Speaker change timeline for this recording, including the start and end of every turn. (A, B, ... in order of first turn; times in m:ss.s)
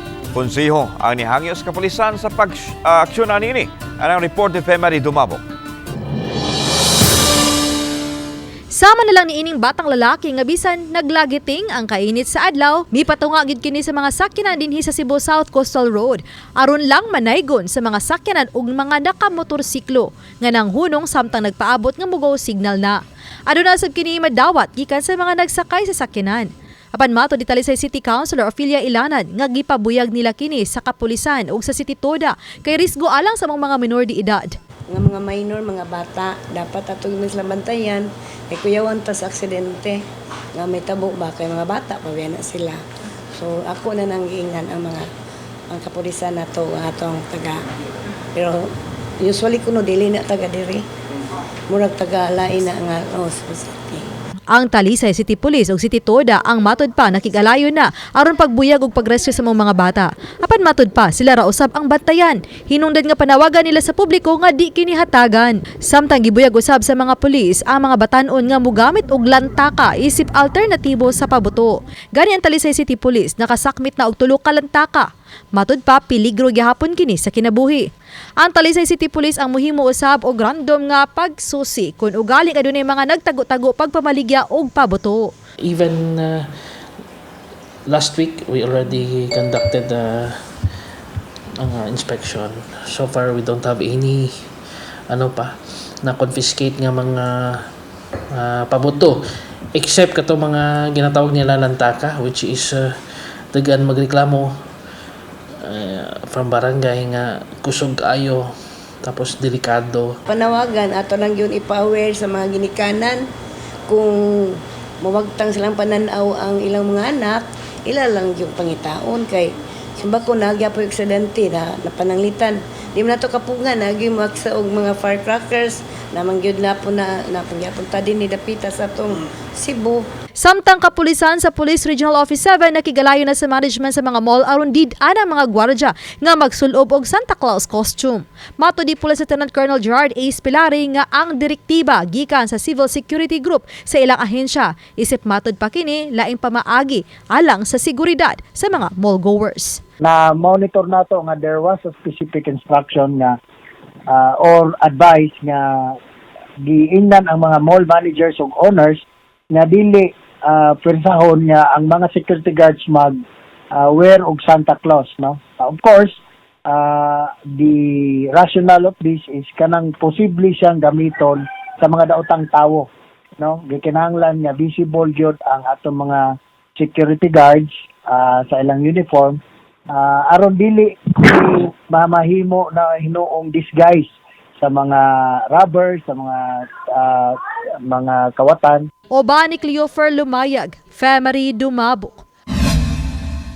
0:00.3-0:05.4 A
0:08.7-0:34.5 B
0:34.9-0:40.0 C
0:40.6-0:42.8 C
0:43.3-0:45.1 C
0:45.7-0:47.6 C
0:48.4-0:48.7 C
0:49.2-0:50.8 C
0:51.7-0:54.1 C
0:54.5-1:17.9 B
1:18.4-1:25.3 B
1:25.6-1:26.4 D
1:27.9-1:30.4 D
1:31.6-1:34.3 D
1:35.1-1:37.6 D
1:38.3-1:39.2 D
1:39.8-1:42.9 D
1:43.5-1:44.5 D
1:45.6-1:48.5 D
1:49.0-1:50.2 D
1:50.3-1:53.2 C
1:53.9-2:10.0 C
2:10.4-2:29.8 B
2:30.0-2:33.4 E
2:34.1-2:36.0 E
2:36.6-2:43.2 E
2:43.7-2:46.2 E
2:46.7-2:52.9 E
2:53.4-2:59.4 E
2:59.9-3:04.1 E
3:04.6-3:08.9 E
3:09.1-3:12.2 B